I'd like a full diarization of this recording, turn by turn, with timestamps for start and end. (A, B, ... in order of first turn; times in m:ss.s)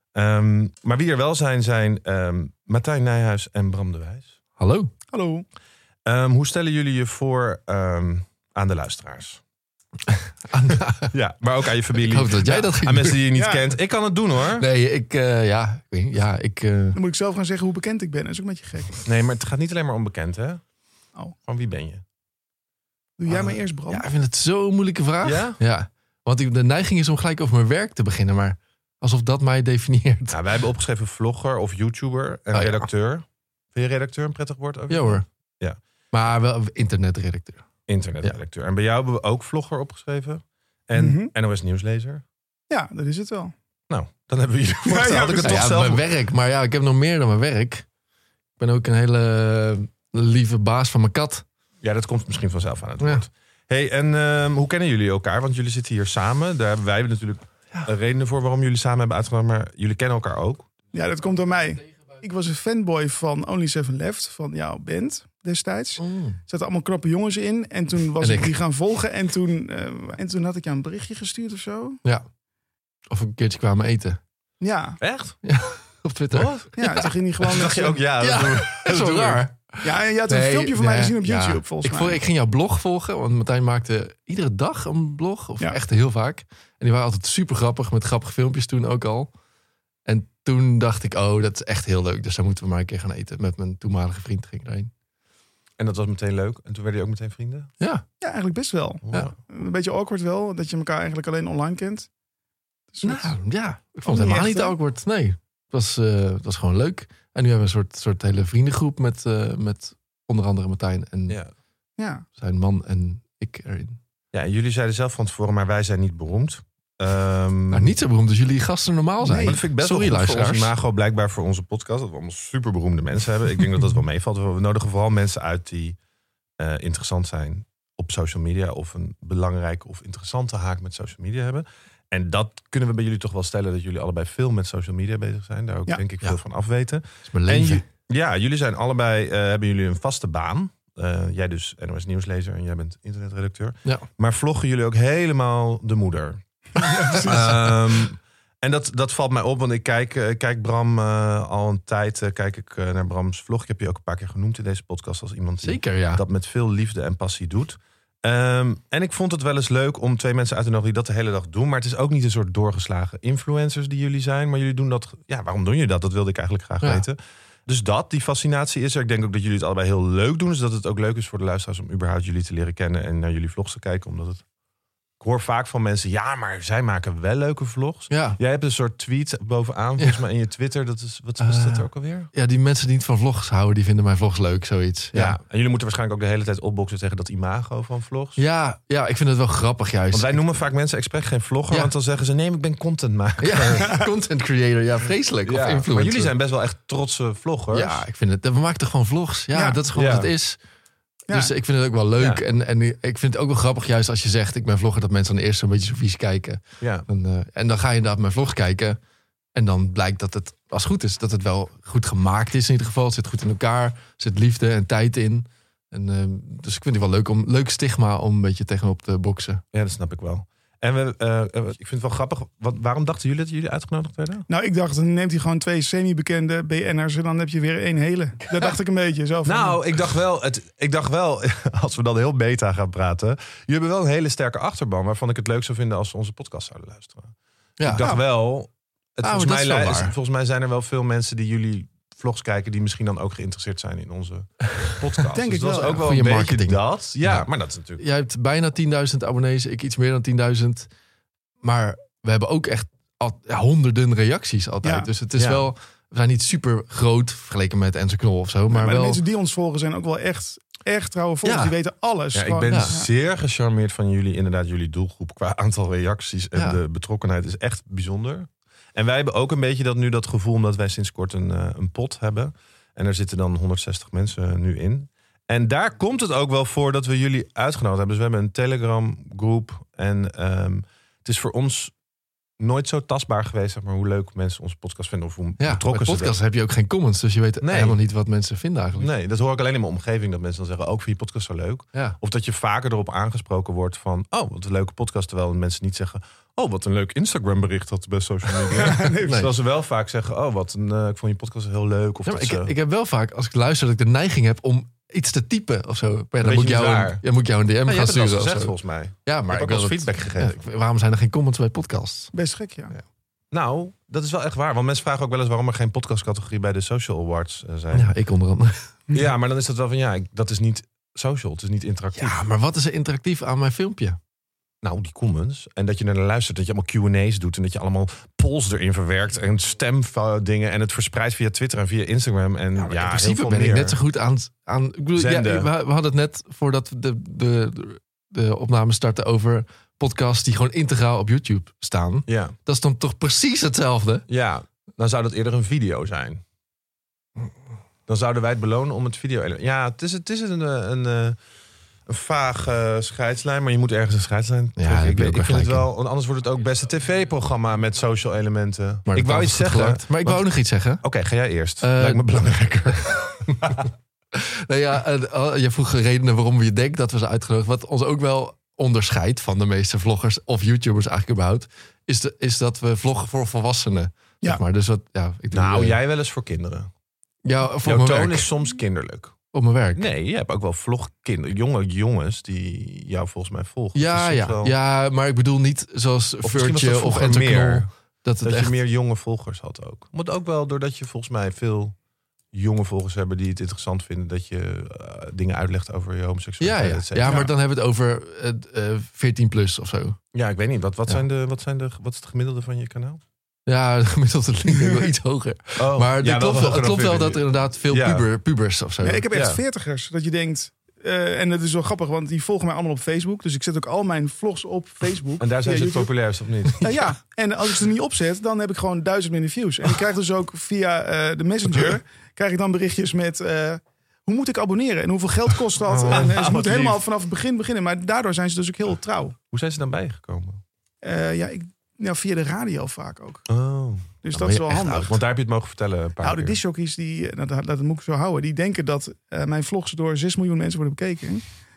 0:00.1-0:04.3 A
0:04.6-0:04.9 B
0:05.1-0:05.5 C
0:06.1-0:09.4 A
0:10.5-0:11.1 B
0:10.7-0:14.7 A
0:12.0-0:13.2 B
0:13.3-0:13.7 C
0:14.6-0:17.0 B
0:17.0-0:19.0 C
0:19.0-0:20.6 A
0:21.4-0:22.0 A
0:23.2-0:24.0 C
0:23.3-0:30.4 B
0:25.2-0:25.6 A
0:30.3-0:35.8 A
0:32.5-0:32.8 B
0:34.9-0:35.2 B
0:36.1-0:37.6 B
0:37.9-0:42.2 A
0:40.9-0:41.3 C
0:42.7-0:43.5 C
0:43.9-0:46.0 A
0:44.9-0:45.6 C
0:45.4-0:47.9 B
0:48.6-0:51.4 B
0:51.8-1:00.7 A
0:53.0-0:53.2 B
1:00.9-1:12.0 C
1:06.0-1:06.4 B
1:08.2-1:08.5 B
1:13.1-1:14.2 B
1:14.6-1:15.0 C
1:15.0-1:15.4 A
1:15.4-1:17.1 B
1:16.3-1:16.8 A
1:16.8-1:18.0 C
1:17.4-1:19.5 A
1:18.2-1:29.3 B
1:19.8-1:22.2 C
1:30.1-1:34.9 B
1:35.8-1:37.7 A
1:37.8-1:38.0 B
1:38.2-1:42.1 C
1:39.0-1:39.3 A
1:42.9-1:43.4 C
1:43.0-1:51.4 B
1:44.0-1:44.8 C
1:52.0-1:52.3 C
1:52.4-1:54.0 B
1:54.3-1:57.9 A
1:57.7-2:00.7 B
1:59.2-1:59.6 C
1:59.4-2:06.0 A
2:06.6-2:54.4 A
2:17.3-2:17.8 B
2:26.8-2:27.6 C
2:35.6-2:36.2 B
2:55.2-3:02.3 A
2:58.1-2:58.4 B
3:01.4-3:05.4 B
3:05.1-3:08.4 A
3:08.4-3:10.4 B
3:10.1-3:14.0 A
3:13.4-3:16.3 B
3:15.4-3:18.0 A
3:17.7-3:20.6 B
3:19.5-3:19.8 C
3:20.0-3:20.3 A
3:21.3-3:29.0 B
3:22.2-3:22.4 A
3:26.8-3:27.1 A
3:29.6-3:39.6 B
3:39.7-3:44.4 A
3:44.5-3:49.8 C
3:49.4-4:08.0 A
3:57.8-3:58.1 B
3:59.2-4:00.1 B
4:05.3-4:06.0 C
4:06.0-4:10.9 B
4:11.6-4:19.2 B
4:14.8-4:15.1 C
4:15.4-4:15.7 A
4:18.7-4:23.1 C
4:21.4-4:21.7 B
4:22.3-4:41.9 A
4:22.7-4:23.0 B
4:42.6-4:46.4 A
4:45.6-4:49.1 B
4:47.6-4:48.0 A
4:49.0-5:02.7 A
4:58.7-4:59.5 C
4:59.2-4:59.5 B
5:02.2-5:08.8 B
5:06.4-5:07.2 A
5:07.8-5:10.6 A
5:09.3-5:12.3 B
5:12.3-5:12.9 C
5:13.5-5:18.1 A
5:17.9-5:18.9 B
5:19.1-5:22.4 A
5:22.2-5:24.2 B
5:24.8-5:34.0 A
5:32.8-5:44.3 B
5:35.2-5:35.7 A
5:42.3-5:42.6 A
5:44.3-5:46.4 A
5:48.1-5:51.4 A
5:52.1-6:00.5 A
5:54.8-5:55.9 B
5:59.1-6:01.0 B
6:01.0-6:03.9 A
6:01.8-6:02.2 B
6:02.9-6:03.7 B
6:04.3-6:16.0 B
6:15.5-6:16.9 A
6:17.4-6:18.5 B
6:17.8-6:19.4 A
6:19.5-6:20.0 B
6:20.0-6:24.7 A
6:24.0-6:28.7 B
6:26.4-6:27.9 A
6:28.4-6:32.0 A
6:32.5-6:37.5 A
6:36.6-6:40.2 B
6:37.2-6:37.5 C
6:40.3-6:43.2 A
6:43.7-6:49.2 B
6:45.8-6:48.3 A
6:49.0-6:56.1 C
6:49.3-6:49.6 A
6:55.4-6:57.1 A
6:56.8-7:09.4 C
7:01.7-7:01.9 A
7:05.9-7:06.2 B
7:06.1-7:07.0 A
7:09.5-7:10.6 A
7:11.0-7:13.5 C
7:13.5-7:16.6 A
7:14.2-7:15.2 C
7:14.4-7:15.1 B
7:16.2-7:21.4 C